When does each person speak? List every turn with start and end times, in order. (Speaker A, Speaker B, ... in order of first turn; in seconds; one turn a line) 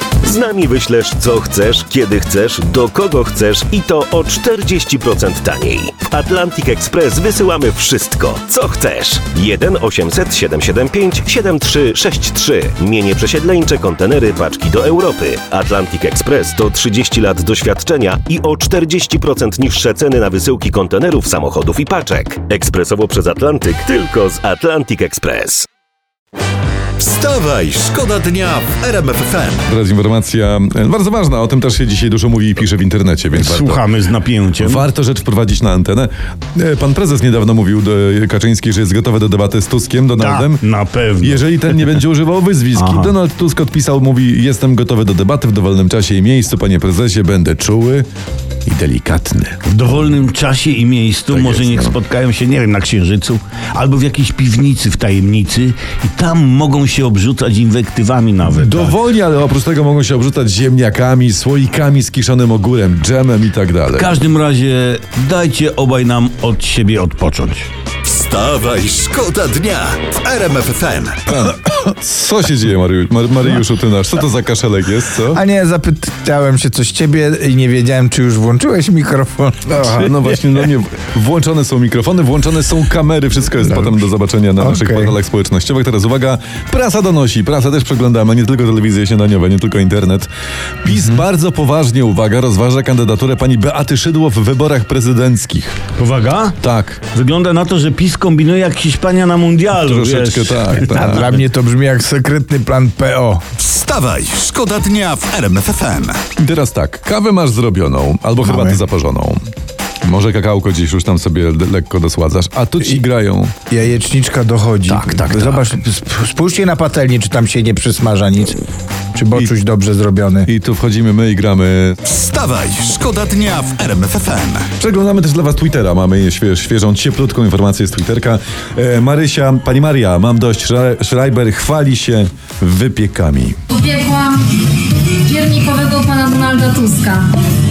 Speaker A: 0.2-25.7
Speaker B: 27.0-29.7
Speaker C: 29.7-33.8
Speaker D: 33.3-34.9
Speaker C: 34.6-40.6
Speaker D: 40.2-42.0
Speaker C: 41.2-48.1
Speaker D: 42.7-43.1
Speaker C: 48.6-49.6
Speaker D: 49.7-59.0
Speaker C: 51.4-51.8
Speaker C: 58.5-64.1
Speaker D: 63.9-67.7
Speaker B: 68.0-71.3
Speaker C: 71.3-75.4
Speaker E: 75.3-80.7
Speaker C: 79.7-90.3
Speaker E: 83.6-84.0
Speaker E: 84.6-85.2
Speaker C: 90.8-95.8
Speaker D: 96.0-96.6
Speaker C: 96.6-97.0
Speaker D: 97.1-101.3
Speaker C: 99.8-101.3
Speaker E: 100.8-103.4
Speaker B: 103.6-106.2
Speaker C: 106.4-109.4
Speaker E: 108.4-108.8
Speaker C: 110.0-113.5
Speaker E: 113.7-118.6
Speaker C: 114.9-115.7
Speaker E: 119.1-120.5
Speaker C: 120.5-122.0
Speaker B: 122.0-124.7
Speaker C: 124.8-133.6
Speaker F: 133.7-137.3